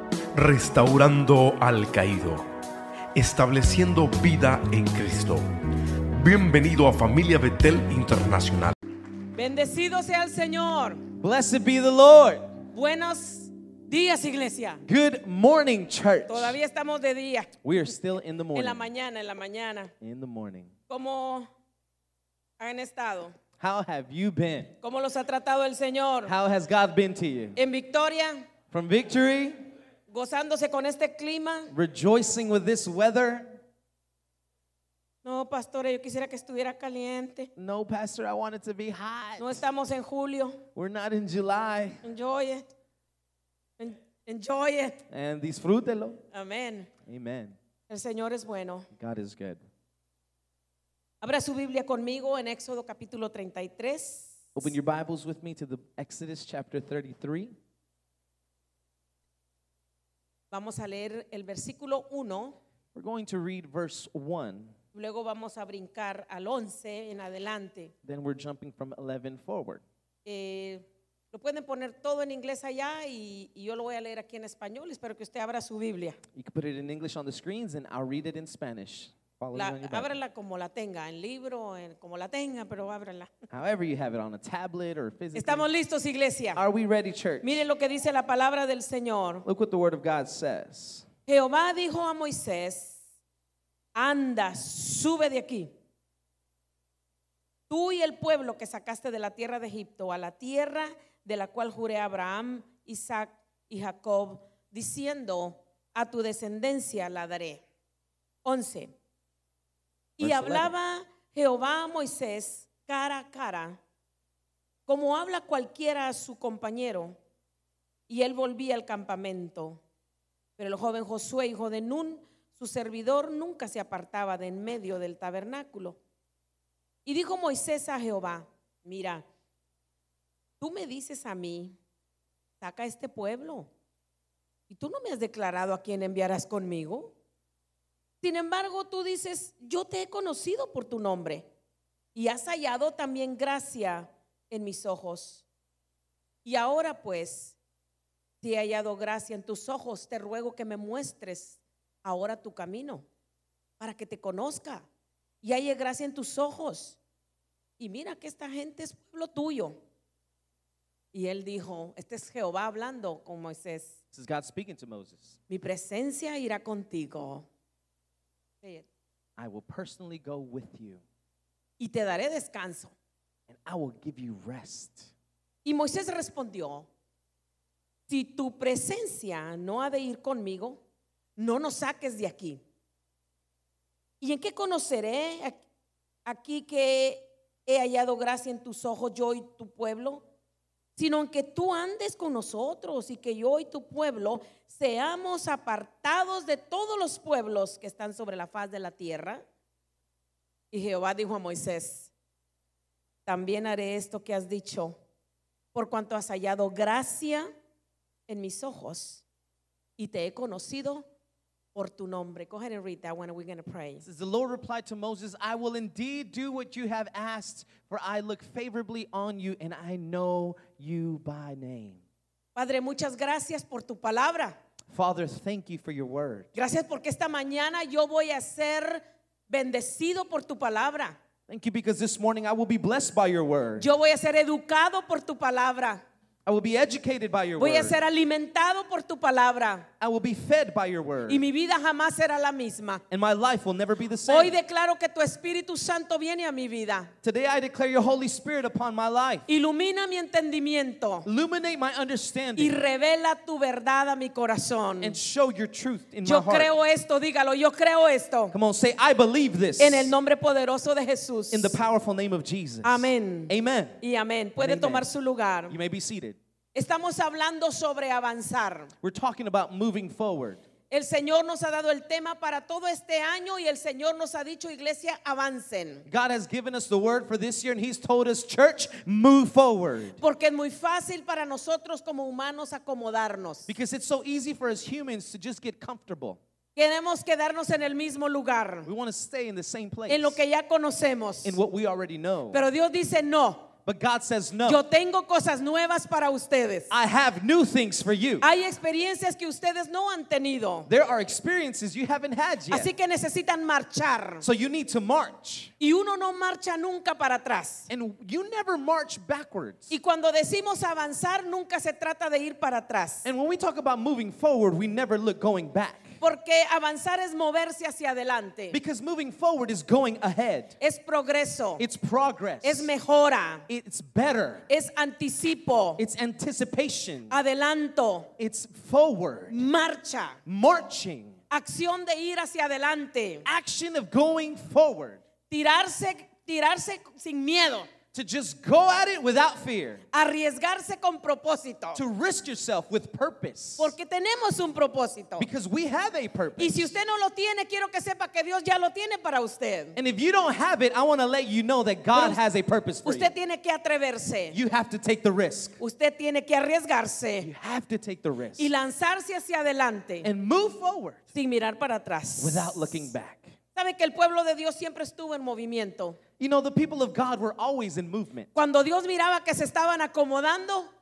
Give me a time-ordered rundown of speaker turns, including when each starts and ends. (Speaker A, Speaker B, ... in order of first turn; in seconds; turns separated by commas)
Speaker A: 0.3-2.5, Speaker A: 3.1-5.5, Speaker A: 6.1-8.7, Speaker B: 9.3-11.0, Speaker C: 11.1-12.5, Speaker B: 12.7-14.8, Speaker C: 14.8-16.6, Speaker B: 16.3-17.5, Speaker C: 17.6-18.8, Speaker B: 18.5-19.9, Speaker C: 20.0-20.7, Speaker B: 20.9-21.5, Speaker B: 22.6-23.3, Speaker C: 23.6-24.7, Speaker B: 24.8-26.3, Speaker C: 26.3-27.6, Speaker B: 27.6-28.4, Speaker C: 28.7-29.7, Speaker B: 30.1-31.7, Speaker C: 31.7-33.6, Speaker B: 35.2-37.5, Speaker C: 37.5-39.6, Speaker B: 39.4-40.6, Speaker C: 40.7-42.0, Speaker B: 42.0-42.7, Speaker B: 43.8-45.0, Speaker C: 45.1-46.2, Speaker B: 46.3-46.9, Speaker C: 47.0-47.5, Speaker B: 47.9-48.9, Speaker C: 48.9-49.6, Speaker B: 51.2-54.7, Speaker C: 54.5-57.5, Speaker B: 60.5-62.6, Speaker C: 62.9-64.8, Speaker B: 64.9-67.9, Speaker C: 68.0-69.8, Speaker B: 70.2-76.2, Speaker C: 76.3-80.2, Speaker B: 79.5-83.3, Speaker C: 83.5-85.7, Speaker B: 85.3-86.6, Speaker C: 86.5-87.7, Speaker B: 87.4-89.5, Speaker C: 89.5-91.1, Speaker B: 91.3-93.0, Speaker B: 94.0-95.7, Speaker B: 97.7-107.6, Speaker B: 108.5-108.9, Speaker B: 110.2-113.8, Speaker C: 110.2-110.7, Speaker B: 114.9-117.2, Speaker B: 118.1-119.8, Speaker B: 120.6-126.0, Speaker B: 127.1-129.2, Speaker B: 130.6-131.8, Speaker B: 132.6-133.7, Speaker B: 134.7-137.1, Speaker B: 138.2-141.5, Speaker B: 142.2-145.4, Speaker B: 146.4-147.6, Speaker B: 148.4-153.1, Speaker B: 153.8-154.9, Speaker B: 155.4-157.0, Speaker B: 157.8-159.8, Speaker B: 161.1-163.9, Speaker C: 164.1-165.4, Speaker B: 165.5-167.5, Speaker C: 169.4-171.0, Speaker B: 171.8-172.9, Speaker C: 173.5-175.1, Speaker B: 175.7-176.9, Speaker B: 178.1-180.8, Speaker B: 181.4-182.6, Speaker B: 184.2-185.6, Speaker B: 186.2-190.2, Speaker B: 191.0-199.4, Speaker B: 200.7-202.1, Speaker B: 203.2-205.0, Speaker B: 205.7-207.5, Speaker B: 208.3-209.2, Speaker B: 210.0-211.1, Speaker B: 211.8-214.0, Speaker C: 214.0-222.0, Speaker B: 222.6-224.6, Speaker C: 224.9-226.5, Speaker B: 226.6-231.2, Speaker C: 231.5-233.9, Speaker B: 233.8-236.0, Speaker C: 236.5-238.0, Speaker B: 237.6-239.9, Speaker C: 240.0-241.4, Speaker B: 241.3-243.0, Speaker C: 243.1-244.6, Speaker B: 244.2-247.1, Speaker C: 247.2-249.5, Speaker B: 249.5-251.3, Speaker C: 251.2-252.8, Speaker B: 252.6-255.2, Speaker C: 255.0-256.7, Speaker B: 256.2-258.5, Speaker C: 258.5-260.1, Speaker B: 259.8-261.8, Speaker C: 261.5-264.0, Speaker B: 262.8-265.8, Speaker C: 264.6-265.1, Speaker C: 265.7-266.4, Speaker B: 266.7-268.9, Speaker C: 269.0-270.6, Speaker B: 270.9-276.1, Speaker C: 276.1-280.2, Speaker B: 280.2-283.7, Speaker C: 283.7-286.4, Speaker B: 286.8-288.9, Speaker C: 288.9-290.4, Speaker B: 290.1-291.6, Speaker C: 291.4-292.6, Speaker B: 292.5-293.7, Speaker C: 293.8-294.8, Speaker B: 294.6-296.9, Speaker C: 296.9-298.5, Speaker B: 298.4-300.9, Speaker C: 300.9-302.9, Speaker B: 302.7-304.4, Speaker C: 304.4-305.7, Speaker B: 305.8-307.9, Speaker C: 307.9-309.9, Speaker B: 309.9-313.2, Speaker C: 313.2-316.2, Speaker B: 316.2-318.8, Speaker C: 318.7-320.8, Speaker B: 320.8-321.8, Speaker C: 321.8-322.9, Speaker B: 322.6-323.6, Speaker C: 323.7-324.6, Speaker B: 324.7-326.0, Speaker C: 326.0-327.4, Speaker B: 327.3-328.3, Speaker C: 328.4-329.6, Speaker B: 329.5-330.4, Speaker C: 330.4-331.4, Speaker B: 331.5-333.4, Speaker C: 333.4-335.2, Speaker B: 335.5-337.9, Speaker C: 338.1-340.0, Speaker B: 340.1-342.0, Speaker C: 341.9-343.9, Speaker B: 343.8-345.5, Speaker C: 345.4-346.9, Speaker B: 346.6-350.0, Speaker C: 349.9-353.3, Speaker B: 352.1-352.4, Speaker B: 353.0-354.6, Speaker C: 354.5-355.8, Speaker B: 355.8-357.5, Speaker C: 357.4-358.7, Speaker B: 358.6-360.3, Speaker C: 360.2-361.2, Speaker B: 361.3-363.1, Speaker C: 362.4-363.5, Speaker B: 363.8-366.2, Speaker C: 366.4-368.5, Speaker B: 368.5-370.9